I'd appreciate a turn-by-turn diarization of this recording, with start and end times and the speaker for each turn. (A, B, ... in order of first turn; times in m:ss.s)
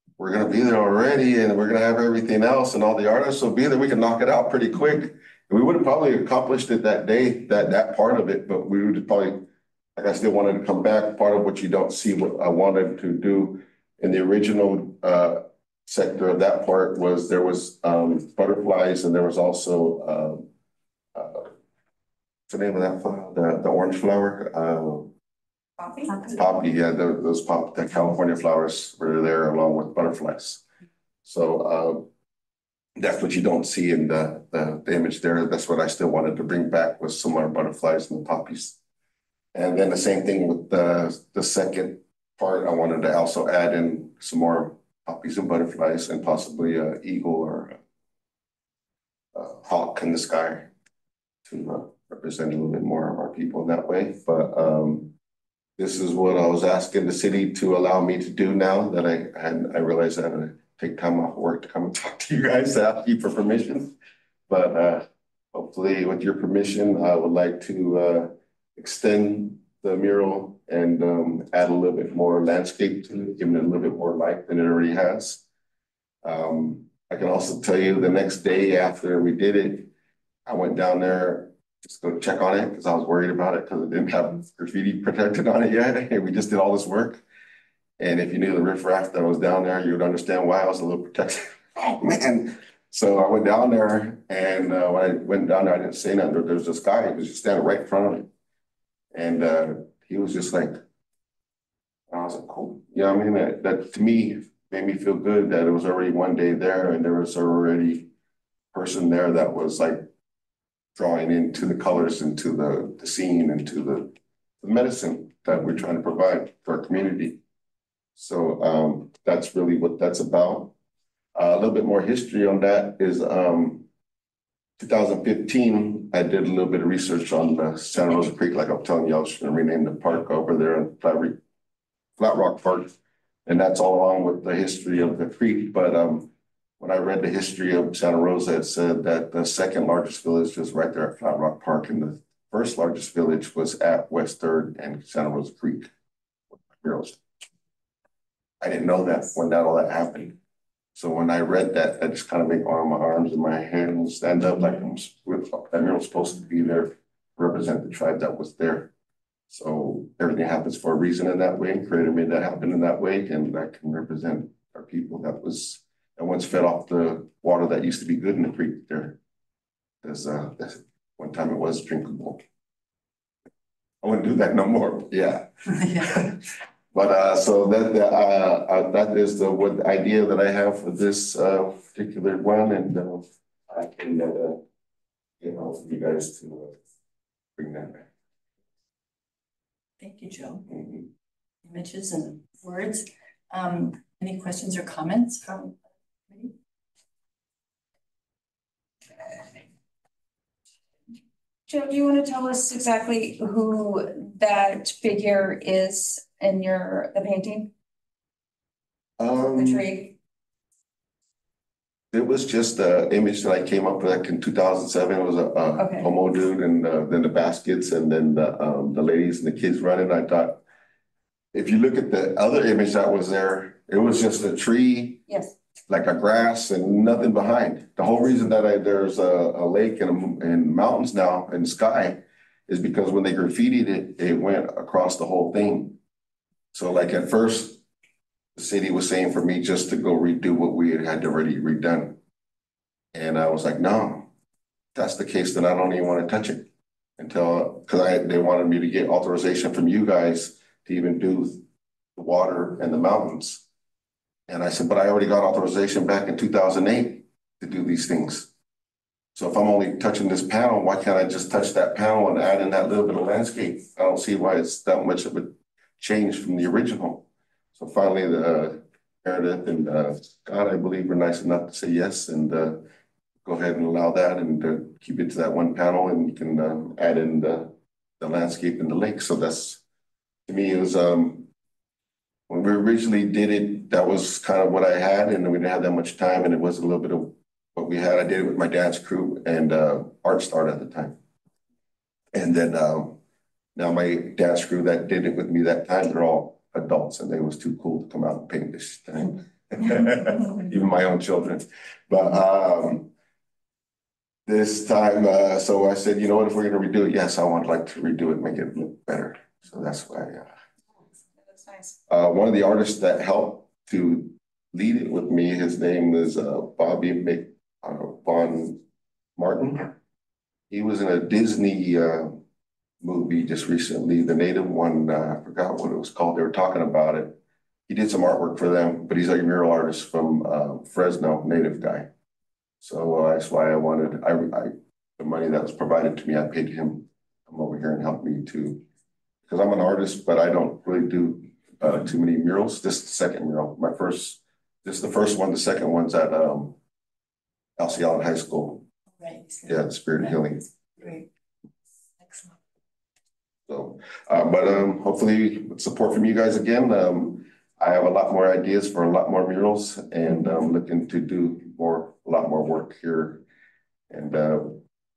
0:00.2-0:20.5 A
0:21.2-0:21.5 A
0:22.5-0:25.1 A
0:25.8-0:26.3 B
0:26.3-0:30.6 A
0:31.2-0:32.1 A
0:33.0-0:38.8 A
0:39.5-0:47.8 A
0:49.3-0:50.7 A
0:51.5-0:55.1 A
0:55.8-1:04.0 A
1:04.5-1:15.4 A
1:16.2-1:19.9 A
1:20.4-1:27.2 A
1:28.0-1:38.3 A
1:39.1-1:40.8 A
1:42.1-1:48.1 A
1:48.7-1:50.1 A
1:51.0-1:57.4 A
1:58.2-2:00.7 A
2:01.4-2:03.9 A
2:04.8-2:11.4 A
2:12.2-2:13.0 A
2:13.5-2:25.9 A
2:26.5-2:27.2 A
2:28.6-2:30.4 A
2:31.0-2:38.9 A
2:39.5-2:49.2 A
2:50.0-2:52.4 A
2:54.0-2:56.4 A
2:56.9-3:04.6 A
3:05.4-3:06.8 A
3:07.6-3:08.1 A
3:10.0-3:10.7 C
3:10.7-3:11.0 A
3:11.6-3:15.8 C
3:16.3-3:16.5 C
3:21.7-3:27.7 B
3:29.2-3:29.9 A
3:29.4-3:30.2 B
3:32.1-3:40.6 A
3:35.8-3:36.1 B
3:41.5-3:45.2 A
3:45.3-3:45.6 B
3:45.9-3:56.0 A
3:56.7-3:57.8 A
3:58.6-4:02.2 A
4:03.1-4:04.3 A
4:05.0-4:11.6 A
4:12.2-4:13.6 A
4:14.5-4:18.5 A
4:19.4-4:32.9 A
4:33.4-4:39.8 A
4:40.5-4:41.5 A
4:42.5-4:51.2 A
4:52.3-4:53.2 A
4:53.8-5:03.1 A
5:04.5-5:10.6 A
5:11.4-5:12.0 B
5:12.1-5:18.8 A
5:19.4-5:19.9 A
5:20.7-5:22.4 A
5:23.0-5:32.1 A
5:32.8-5:38.8 A
5:39.5-5:46.8 A
5:47.8-5:48.8 A
5:49.2-5:50.4 C
5:49.6-5:50.7 A
5:51.0-5:51.3 C
5:52.2-5:52.6 C
5:53.7-6:03.4 A
6:04.1-6:04.8 A